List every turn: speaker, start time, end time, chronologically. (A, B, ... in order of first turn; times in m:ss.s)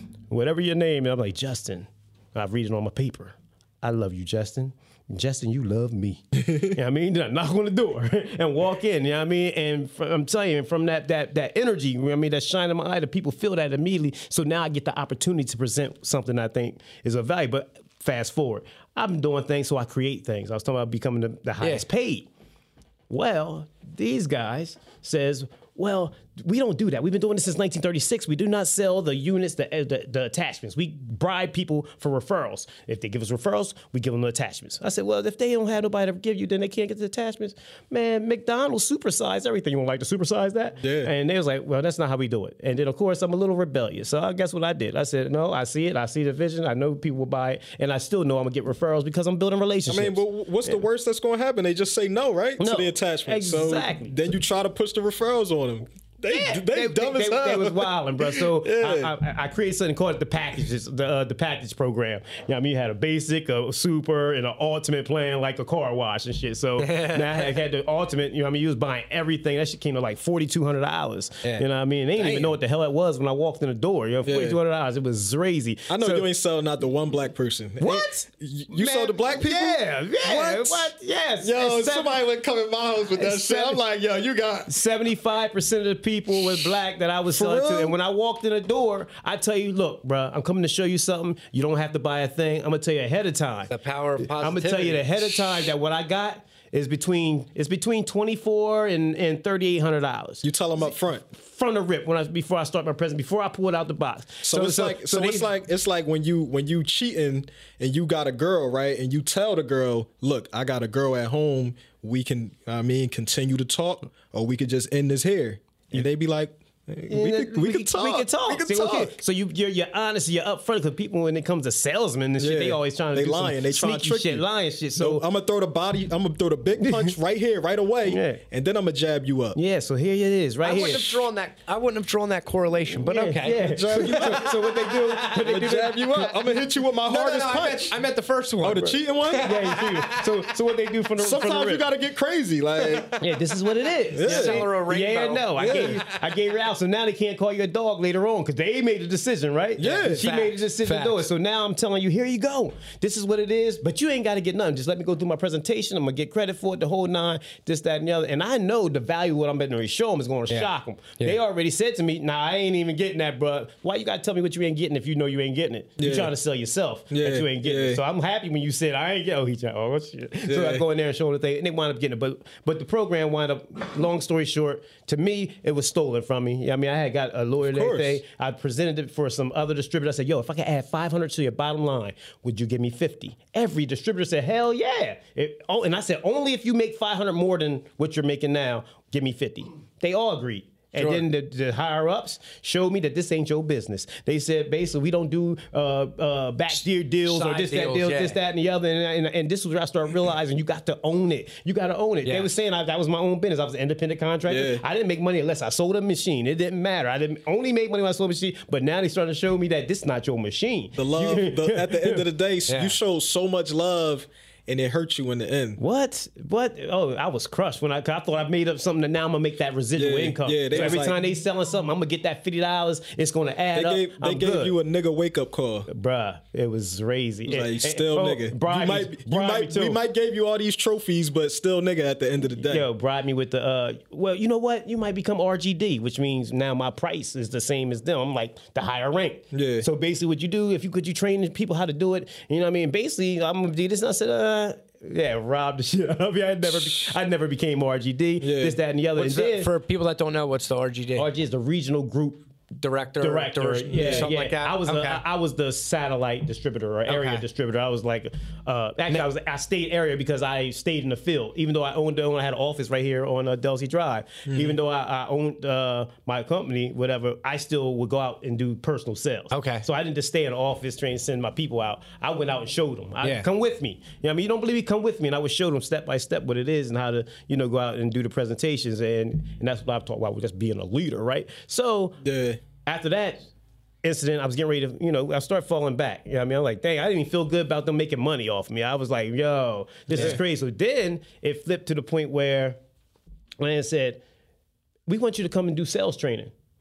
0:00.3-0:22.3 A
0:23.1-0:50.8 A
0:40.8-0:41.1 B
0:49.9-0:59.1 B
0:52.6-0:54.1 A
0:56.3-1:16.3 A
1:06.8-1:07.2 C
1:12.2-1:12.5 C
1:14.2-1:14.6 B
1:15.9-1:24.7 B
1:17.8-1:22.2 A
1:23.2-1:23.8 A
1:24.7-1:40.4 A
1:27.3-1:28.0 B
1:33.7-1:35.1 C
1:40.4-1:41.2 B
1:41.2-1:45.5 A
1:44.4-1:59.2 B
1:57.1-2:05.3 A
2:02.4-2:04.5 B
2:05.0-2:09.6 B
2:06.8-2:07.1 A
2:08.1-2:08.4 A
2:09.6-2:11.1 A
2:10.6-2:15.9 C
2:13.1-2:16.0 A
2:13.6-2:14.5 B
2:15.4-2:18.0 B
2:17.0-2:20.4 C
2:18.6-2:19.5 B
2:19.4-2:21.8 A
2:21.2-2:23.1 B
2:22.8-2:23.3 C
2:23.2-3:32.2 A
2:24.1-2:24.6 B
2:24.2-2:26.2 C
2:25.6-2:26.0 B
2:29.8-2:30.3 B
2:29.8-2:31.3 C
2:40.5-2:41.4 C
2:46.0-2:46.3 B
2:47.1-2:48.0 B
2:50.5-2:50.8 B
2:57.6-2:58.2 B
3:11.0-3:11.3 C
3:17.2-3:18.4 C
3:24.5-3:24.8 B
3:31.0-3:35.8 B
3:32.7-3:33.0 C
3:35.8-3:44.7 A
3:40.0-3:41.2 B
3:43.7-3:45.9 B
3:45.9-3:50.0 A
3:47.5-3:52.9 B
3:52.6-4:09.7 A
3:59.5-3:59.9 B
4:08.4-4:08.8 B
4:09.2-4:11.3 C
4:11.2-4:12.4 A
4:12.8-4:15.2 C
4:13.2-4:42.2 A
4:13.9-4:14.3 B
4:17.1-4:17.4 C
4:24.5-4:24.8 B
4:29.5-4:29.8 C
4:42.2-4:42.6 B
4:42.8-4:43.4 A
4:44.0-4:52.8 A
4:50.1-4:50.4 B
4:53.6-4:54.2 A
4:55.1-4:56.5 A